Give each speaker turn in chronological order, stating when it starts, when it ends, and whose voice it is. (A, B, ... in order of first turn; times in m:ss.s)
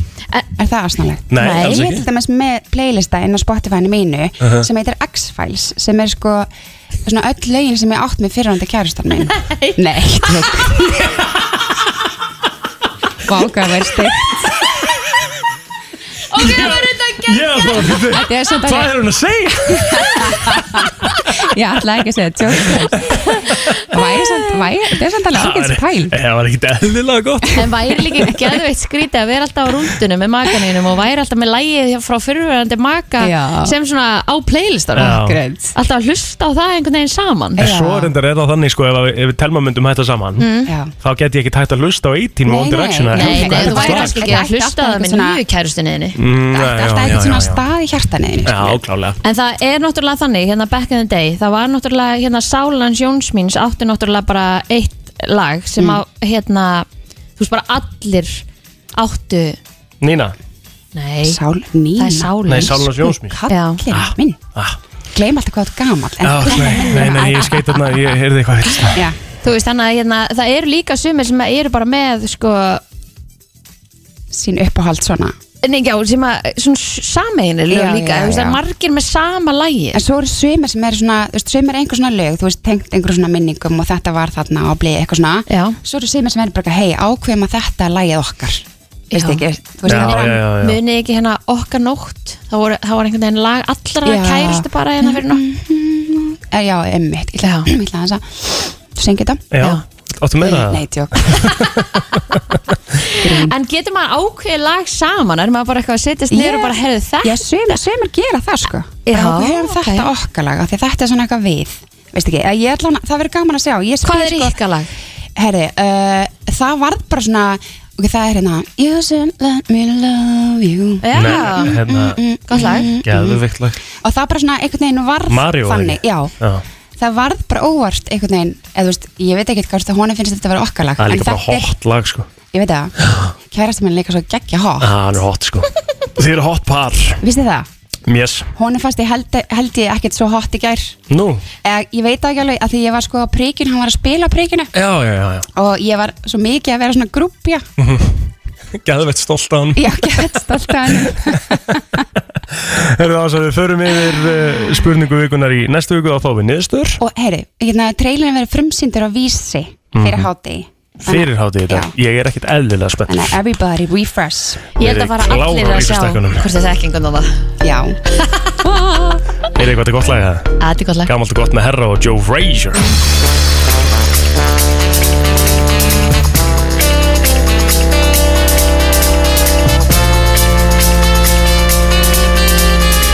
0:00.6-0:06.5 A
0:01.3-0:02.0 B
0:01.4-0:02.0 C
0:07.0-0:11.1 A
0:09.2-0:09.8 C
0:13.3-0:14.3 A
0:16.3-0:18.0 C
0:16.3-0:21.2 B
0:16.5-0:16.8 A
0:17.8-0:19.0 A
0:19.7-0:23.1 A
0:22.6-0:23.8 B
0:23.9-0:26.1 A
0:25.3-0:27.6 B
0:27.5-0:37.7 C
0:33.2-0:33.8 A
0:35.0-0:35.4 B
0:35.0-0:35.8 A
0:37.6-0:38.1 A
0:37.6-0:40.4 B
0:40.4-0:40.7 C
0:40.6-0:40.9 A
0:41.0-0:44.3 B
0:42.4-0:45.4 A
0:43.1-0:46.2 C
0:46.2-0:47.6 B
0:46.5-0:48.8 A
0:48.4-0:49.2 B
0:49.2-0:56.9 C
0:55.8-0:56.0 A
0:57.4-0:58.4 C
0:59.0-0:59.6 C
1:00.0-1:00.3 B
1:00.9-1:01.4 C
1:01.2-1:04.4 A
1:02.0-1:02.9 C
1:02.5-1:03.4 B
1:03.5-1:03.8 C
1:03.9-1:04.8 B
1:05.1-1:08.0 A
1:06.2-1:09.0 B
1:06.4-1:07.6 C
1:08.8-1:09.2 A
1:09.4-1:12.8 C
1:14.3-1:15.3 A
1:15.6-1:20.0 C
1:17.7-1:18.6 A
1:19.9-1:30.4 A
1:25.5-1:25.8 C
1:29.1-1:35.4 C
1:29.9-1:30.8 B
1:34.0-1:39.5 A
1:37.4-1:37.7 C
1:39.5-1:42.6 B
1:40.4-1:41.6 A
1:41.4-1:41.7 C
1:43.1-1:47.8 C
1:43.2-1:43.6 A
1:46.3-1:54.6 A
1:49.0-1:50.1 C
1:54.0-1:54.9 C
1:55.4-2:06.3 A
2:01.0-2:01.8 C
2:01.1-2:02.2 B
2:02.5-2:02.9 C
2:03.0-2:03.8 B
2:05.3-2:06.6 B
2:07.0-2:11.7 A
2:11.0-2:12.3 B
2:12.5-2:12.9 A
2:13.0-2:13.3 B
2:13.5-2:14.9 A
2:14.8-2:17.2 B
2:17.2-2:17.7 A
2:18.1-2:18.5 B
2:18.6-2:21.0 A
2:21.1-2:21.4 B
2:21.6-2:24.7 A
2:24.7-2:25.4 B
2:25.6-2:27.6 A
2:27.8-2:28.2 B
2:28.8-2:31.8 B
2:29.8-2:32.0 A
2:32.5-2:37.0 B
2:34.1-2:34.6 A
2:37.0-2:41.9 A
2:39.9-2:40.3 B
2:41.0-2:43.4 B
2:43.1-2:44.7 A
2:44.8-2:47.4 C
2:44.8-2:46.5 B
2:47.6-2:48.0 A
2:48.3-2:49.2 C
2:49.6-2:52.8 B
2:50.6-2:51.1 C